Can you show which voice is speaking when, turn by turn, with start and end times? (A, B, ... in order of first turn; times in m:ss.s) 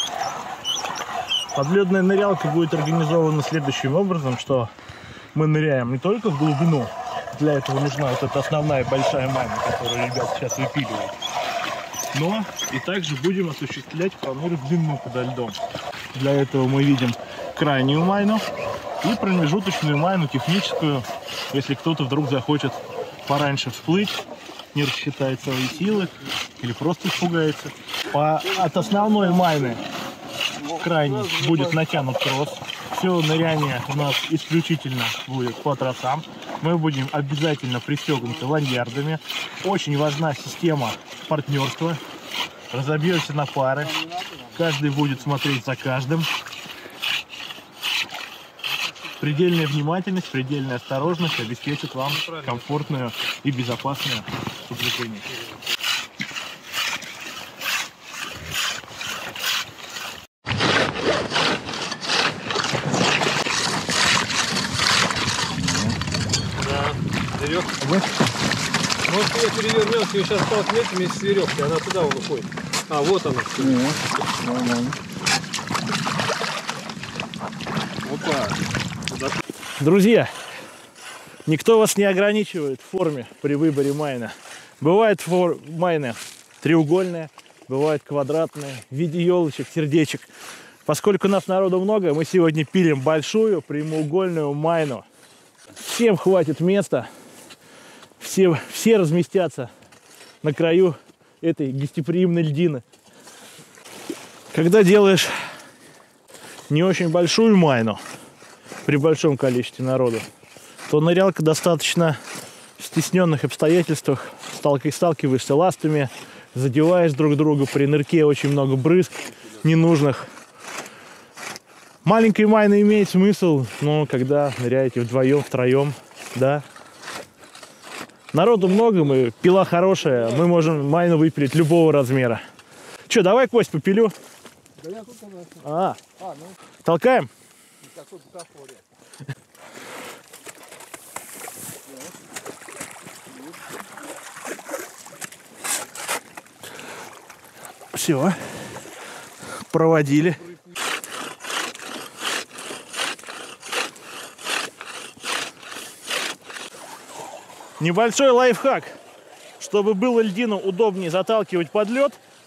0:01.5-0:04.7 A
0:05.3-0:11.2 A
0:12.1-0:15.6 A
0:16.1-0:18.4 A
0:19.0-0:29.8 A
0:30.7-0:42.0 A
0:42.7-0:46.3 A
0:49.2-0:55.3 A
1:06.6-1:07.8 B
1:09.0-1:14.9 B
1:18.1-1:18.6 B
1:19.8-1:20.3 A
1:21.5-1:30.3 A
1:30.8-1:35.1 A
1:35.8-1:37.1 A
1:38.2-1:39.7 A
1:40.4-1:42.8 A
1:44.5-1:45.3 A
1:46.7-1:48.0 A
1:48.8-1:50.3 A
1:50.9-1:52.2 A
1:52.8-2:00.3 A
2:02.0-2:06.6 A
2:08.3-2:12.4 A
2:13.1-2:14.1 A
2:14.9-2:15.4 B
2:15.6-2:16.0 A
2:16.8-2:17.3 A
2:18.2-2:18.6 B
2:27.9-2:28.6 A
2:29.7-2:30.5 A
2:37.8-2:39.0 A
2:39.6-2:42.2 A